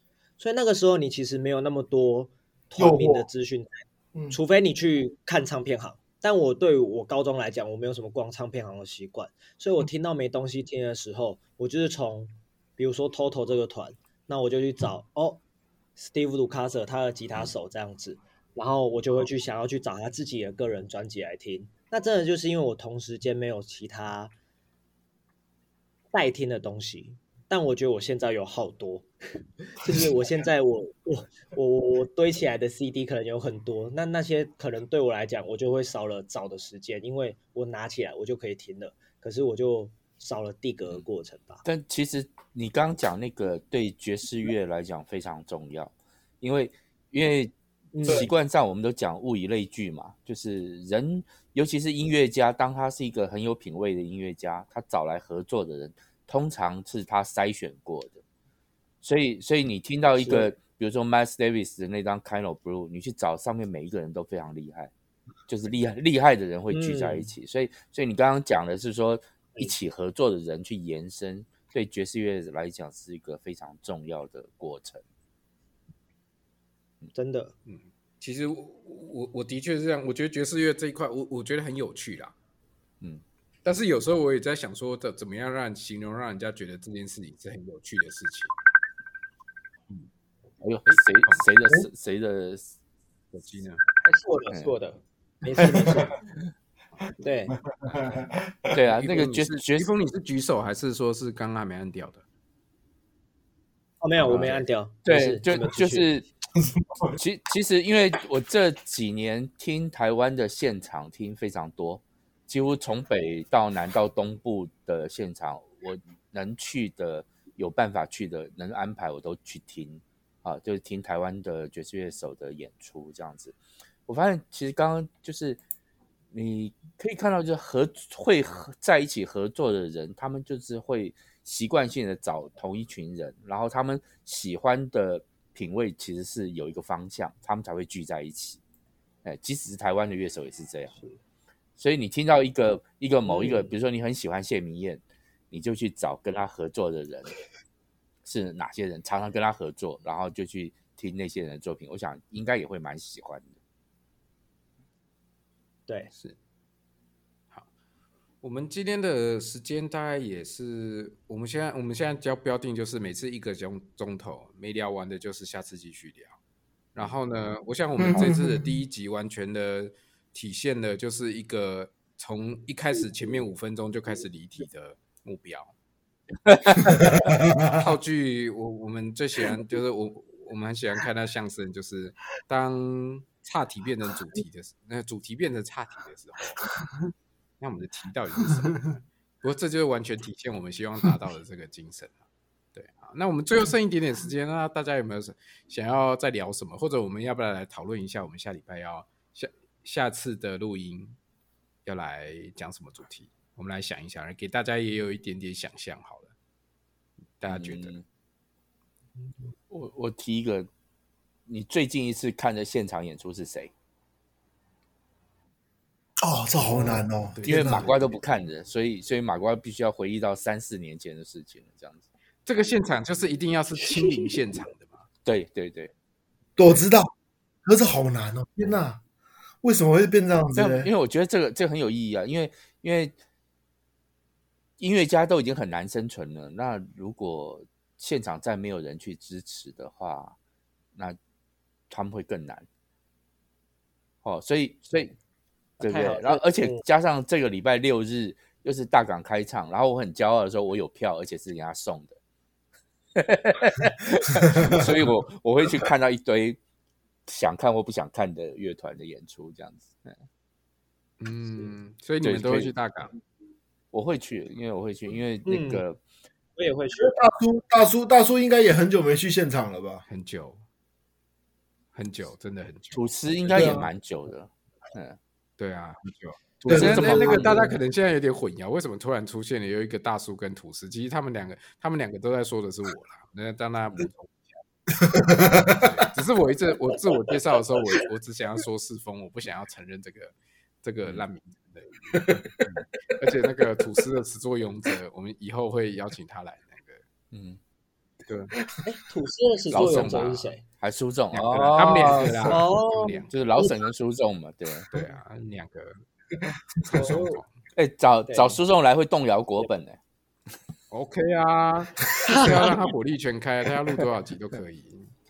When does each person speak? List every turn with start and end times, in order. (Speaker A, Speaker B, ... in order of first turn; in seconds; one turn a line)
Speaker A: 0.4-15.4
Speaker B: 2.8-3.3
Speaker A: 16.0-24.3
Speaker A: 26.1-29.1
Speaker A: 29.7-41.6
Speaker C: 41.6-58.2
Speaker A: 47.9-48.3
Speaker C: 59.0-64.9
Speaker A: 60.1-60.5
Speaker C: 65.5-75.0
Speaker A: 66.7-67.3
Speaker A: 77.1-77.5
Speaker D: 77.7-82.3
Speaker D: 83.6-88.5
Speaker C: 90.6-92.7
Speaker D: 90.8-91.5
Speaker D: 93.3-93.8
Speaker A: 94.0-96.2
Speaker A: 97.2-97.5
Speaker B: 97.7-98.7
Speaker C: 98.7-99.9
Speaker D: 98.8-102.2
Speaker A: 104.0-106.0
Speaker C: 104.2-106.2
Speaker B: 106.6-107.2
Speaker C: 107.1-123.5
Speaker C: 124.1-125.6
Speaker C: 126.3-138.6
Speaker C: 139.2-140.9
Speaker C: 141.8-147.4
Speaker A: 143.3-143.7
Speaker C: 148.2-153.5
Speaker D: 158.4-166.4
Speaker D: 166.9-175.7
Speaker B: 168.0-168.6
Speaker C: 176.4-177.1
Speaker D: 177.5-186.7
Speaker D: 187.6-192.2
Speaker D: 192.7-201.2
Speaker D: 201.8-206.3
Speaker D: 207.4-207.9
Speaker C: 207.5-208.0
Speaker C: 209.7-210.7
Speaker C: 211.4-213.7
Speaker B: 216.2-217.8
Speaker D: 217.3-218.1
Speaker C: 217.4-222.0
Speaker D: 222.4-225.1
Speaker C: 225.2-225.9
Speaker B: 226.6-227.1
Speaker B: 227.6-229.0
Speaker B: 229.6-230.9
Speaker C: 230.5-233.1
Speaker C: 234.8-240.3
Speaker C: 241.9-242.7
Speaker C: 244.2-245.2
Speaker A: 245.8-246.8
Speaker C: 245.8-252.2
Speaker C: 253.2-256.6
Speaker C: 257.3-260.2
Speaker D: 261.2-263.1
Speaker C: 262.2-262.7
Speaker C: 263.9-266.0
Speaker A: 265.4-265.8
Speaker A: 266.6-267.2
Speaker B: 267.0-270.0
Speaker D: 270.1-270.6
Speaker D: 271.9-273.8
Speaker C: 272.9-275.2
Speaker B: 273.5-273.9
Speaker D: 275.6-284.5
Speaker B: 276.7-277.7
Speaker C: 276.7-277.6
Speaker B: 285.0-285.8
Speaker D: 285.7-297.0
Speaker C: 297.3-297.6
Speaker D: 298.3-298.5
Speaker A: 298.8-300.6
Speaker D: 299.7-300.5
Speaker C: 299.7-302.6
Speaker D: 301.3-303.3
Speaker A: 302.5-303.8
Speaker C: 303.3-305.0
Speaker D: 304.9-306.0
Speaker D: 306.9-307.5
Speaker A: 306.9-307.4
Speaker C: 307.7-310.0
Speaker A: 308.3-308.6
Speaker D: 310.9-315.1
Speaker A: 312.2-312.7